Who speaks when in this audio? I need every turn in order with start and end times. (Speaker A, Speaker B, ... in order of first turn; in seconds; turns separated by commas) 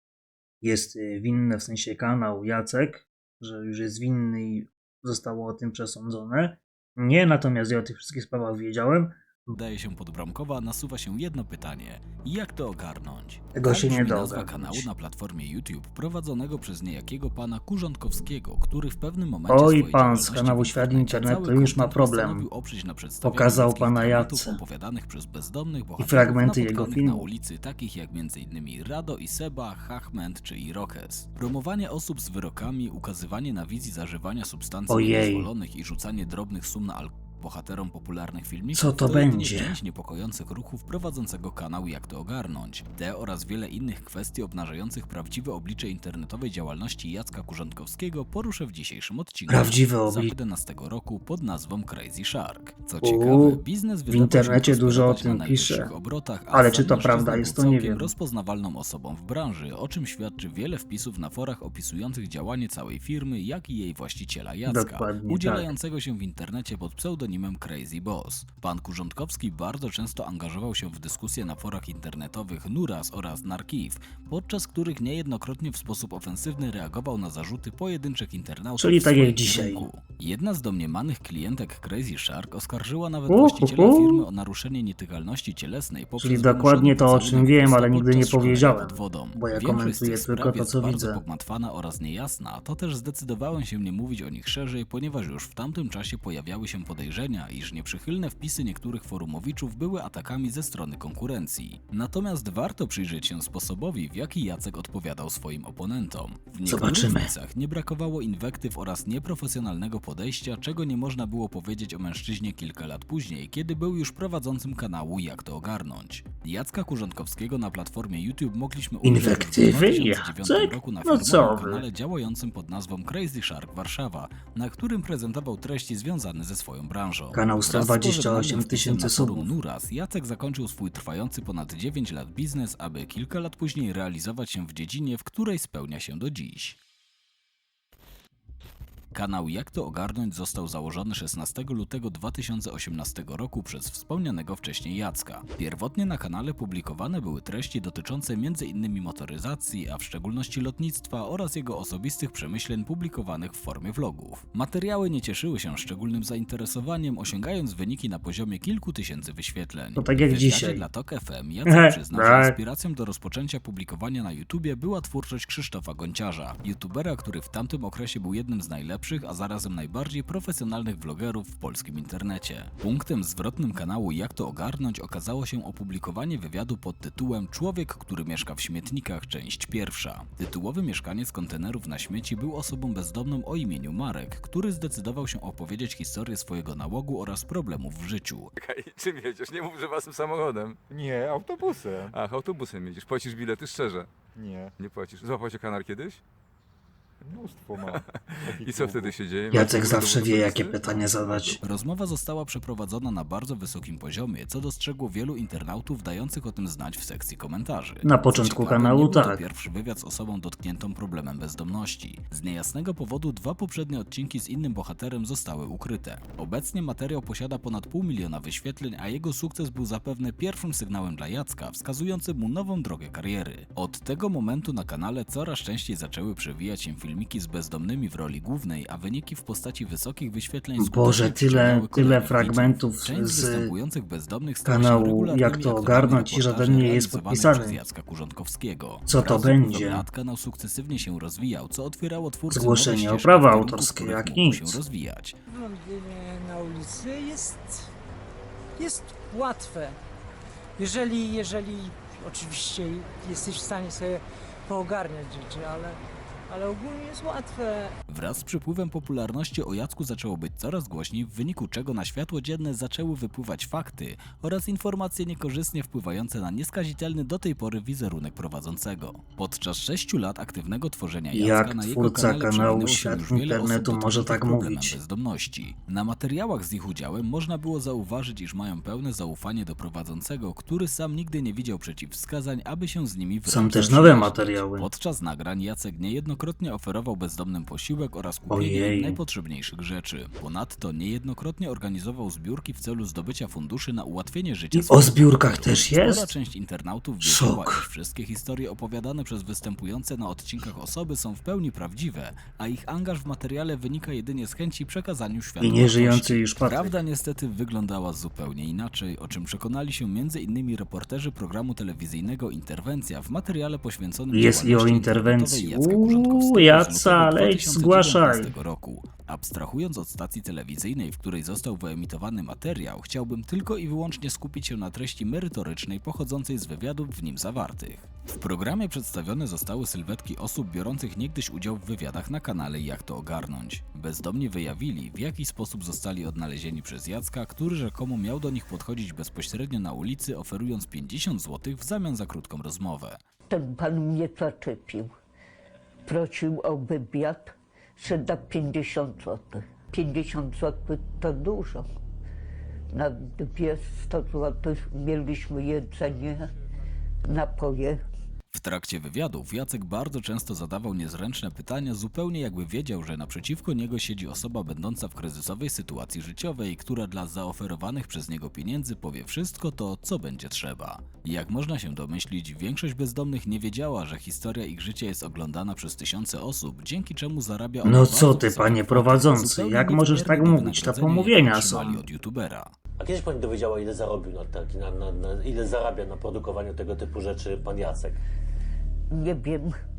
Speaker A: 0.6-9.5, Speaker B: 9.5-136.8, Speaker A: 13.6-14.9, Speaker A: 19.5-22.5, Speaker A: 23.2-24.6, Speaker A: 26.0-27.2, Speaker A: 34.9-35.5, Speaker A: 38.7-39.8, Speaker A: 49.5-50.3, Speaker A: 53.0-55.9, Speaker A: 56.5-58.1, Speaker A: 64.7-65.7, Speaker A: 78.8-79.9, Speaker A: 83.3-84.2, Speaker A: 86.2-91.2, Speaker A: 106.7-107.3, Speaker A: 119.0-121.8, Speaker A: 127.3-129.5, Speaker B: 139.1-188.5, Speaker A: 160.0-160.8, Speaker A: 161.7-162.6, Speaker C: 188.6-190.8, Speaker D: 190.9-192.2, Speaker C: 192.1-194.1, Speaker D: 194.4-194.7, Speaker C: 194.8-196.2, Speaker D: 197.2-199.1, Speaker C: 198.6-201.6, Speaker A: 199.5-201.6, Speaker B: 201.6-245.4, Speaker A: 208.1-209.4, Speaker A: 230.8-233.7, Speaker A: 234.7-237.8, Speaker A: 239.1-240.1, Speaker A: 242.5-244.8, Speaker E: 245.5-247.9, Speaker E: 248.8-250.0, Speaker E: 250.8-257.9, Speaker B: 258.1-343.2, Speaker A: 271.3-275.0, Speaker A: 283.5-284.9, Speaker A: 288.5-289.2, Speaker A: 294.7-296.3, Speaker A: 297.2-297.8, Speaker A: 305.6-306.9, Speaker A: 314.3-318.5, Speaker F: 343.5-345.1, Speaker F: 346.1-351.9, Speaker F: 352.9-356.5, Speaker F: 357.3-358.0, Speaker B: 358.5-382.8, Speaker A: 377.8-382.0, Speaker G: 383.0-388.2, Speaker F: 389.1-389.8